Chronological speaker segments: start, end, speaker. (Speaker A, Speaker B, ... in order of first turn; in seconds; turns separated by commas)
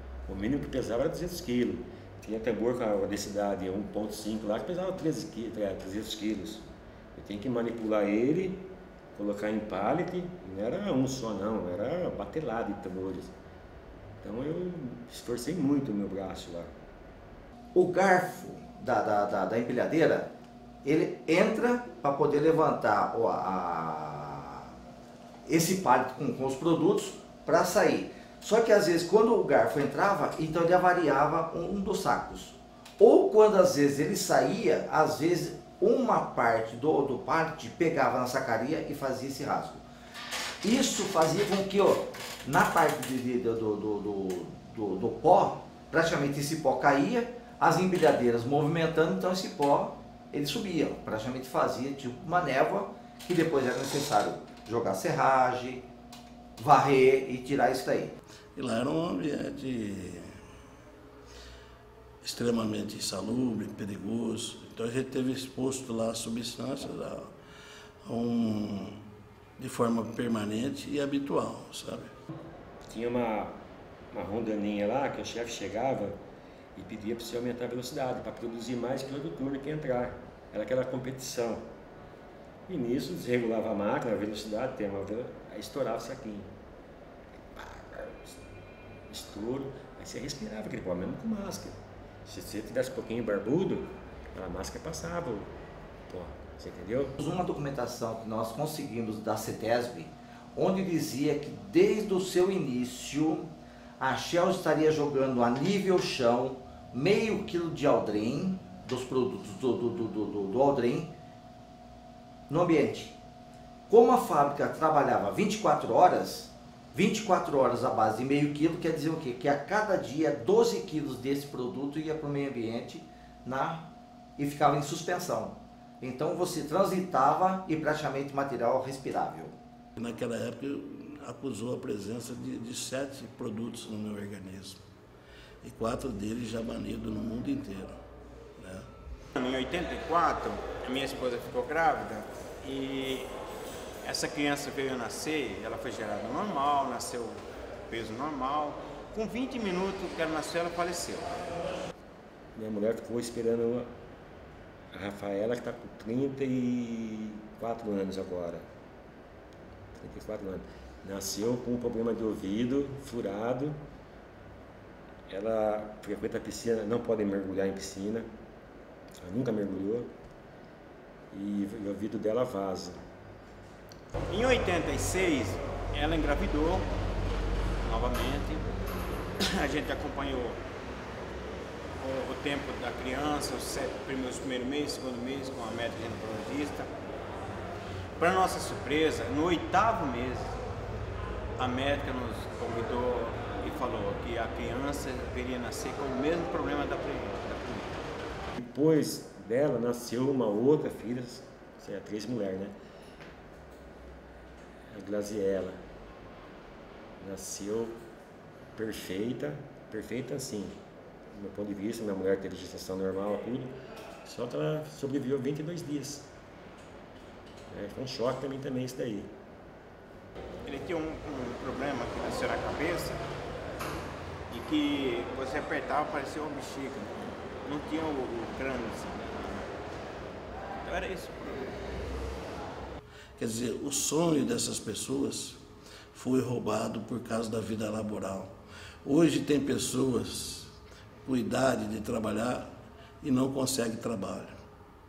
Speaker A: 0.3-13.3, Speaker A: 14.2-16.7, Speaker B: 17.8-20.3, Speaker B: 20.8-24.7, Speaker B: 25.4-39.8, Speaker B: 40.6-55.9, Speaker B: 56.6-58.2, Speaker C: 58.5-60.4, Speaker C: 62.2-67.3, Speaker C: 68.0-69.0, Speaker C: 69.6-72.1, Speaker A: 72.9-73.6, Speaker A: 74.1-76.2, Speaker A: 76.8-81.7, Speaker A: 82.7-86.5, Speaker A: 87.5-88.4, Speaker A: 89.1-95.5, Speaker A: 96.1-97.2, Speaker B: 97.2-111.1, Speaker B: 112.5-113.2, Speaker B: 113.9-129.5, Speaker C: 130.0-134.8, Speaker C: 135.6-138.0, Speaker C: 138.6-138.9, Speaker D: 139.4-143.3, Speaker D: 144.0-151.4, Speaker A: 152.6-153.9, Speaker A: 154.9-158.7, Speaker A: 160.0-163.8, Speaker A: 165.3-168.3, Speaker A: 169.2-170.1, Speaker A: 171.3-173.0, Speaker D: 174.3-176.8, Speaker D: 177.8-178.7, Speaker D: 179.4-180.6, Speaker D: 182.0-186.9, Speaker D: 188.2-190.5, Speaker D: 191.6-197.9, Speaker A: 198.6-202.7, Speaker A: 204.9-205.8, Speaker A: 207.2-208.0, Speaker A: 208.8-210.8, Speaker A: 211.3-216.3, Speaker A: 217.7-219.3, Speaker D: 220.7-223.2, Speaker D: 224.5-229.7, Speaker D: 230.8-231.7, Speaker C: 233.4-235.6, Speaker C: 236.1-244.6